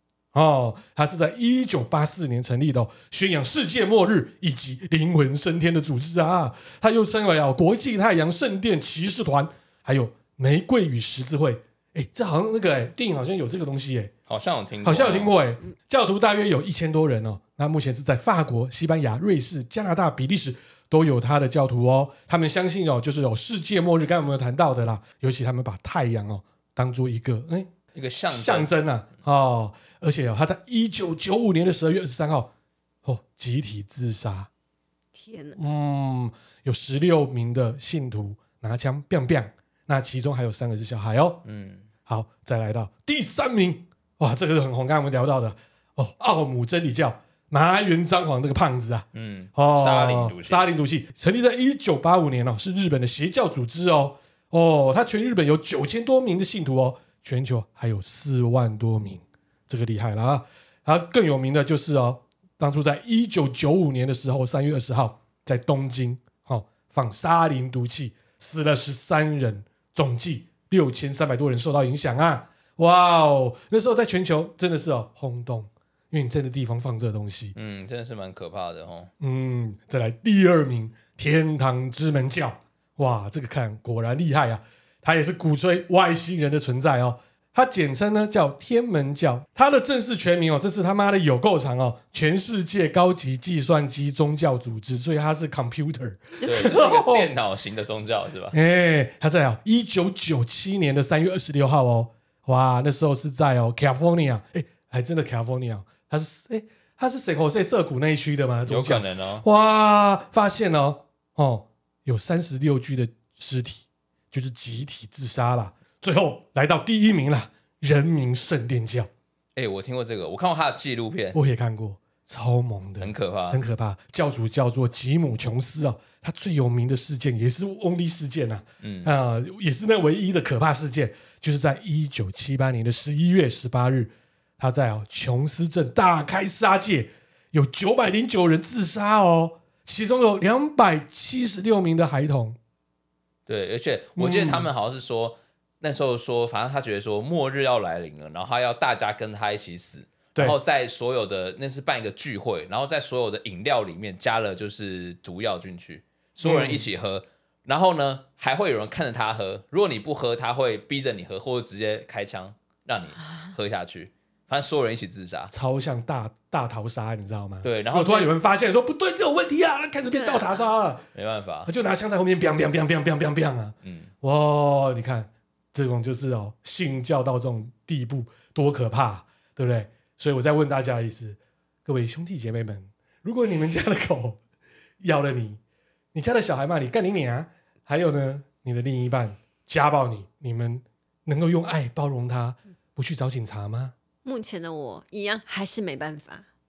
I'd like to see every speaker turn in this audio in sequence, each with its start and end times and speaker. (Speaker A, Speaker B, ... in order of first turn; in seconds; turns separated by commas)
Speaker A: 0.3-14.1, Speaker B: 14.3-15.3, Speaker A: 14.8-27.7, Speaker B: 27.9-28.7, Speaker A: 28.3-32.5, Speaker A: 33.0-34.5, Speaker C: 35.1-35.6, Speaker A: 35.5-41.4, Speaker B: 41.4-41.9, Speaker A: 42.0-77.5, Speaker B: 49.1-50.7, Speaker B: 77.5-79.1, Speaker A: 79.2-97.3, Speaker B: 96.4-98.5, Speaker A: 98.5-119.1, Speaker B: 108.7-109.5, Speaker B: 119.5-121.4, Speaker A: 121.3-142.6, Speaker B: 123.0-123.6, Speaker B: 128.8-129.1, Speaker B: 143.5-165.5, Speaker A: 144.2-144.7, Speaker A: 156.4-156.9, Speaker A: 165.5-171.0, Speaker B: 167.6-168.3, Speaker C: 170.1-170.7, Speaker B: 171.1-171.7, Speaker A: 171.7-184.4, Speaker B: 173.8-174.1, Speaker A: 185.0-185.6, Speaker A: 186.1-193.9, Speaker C: 194.2-196.4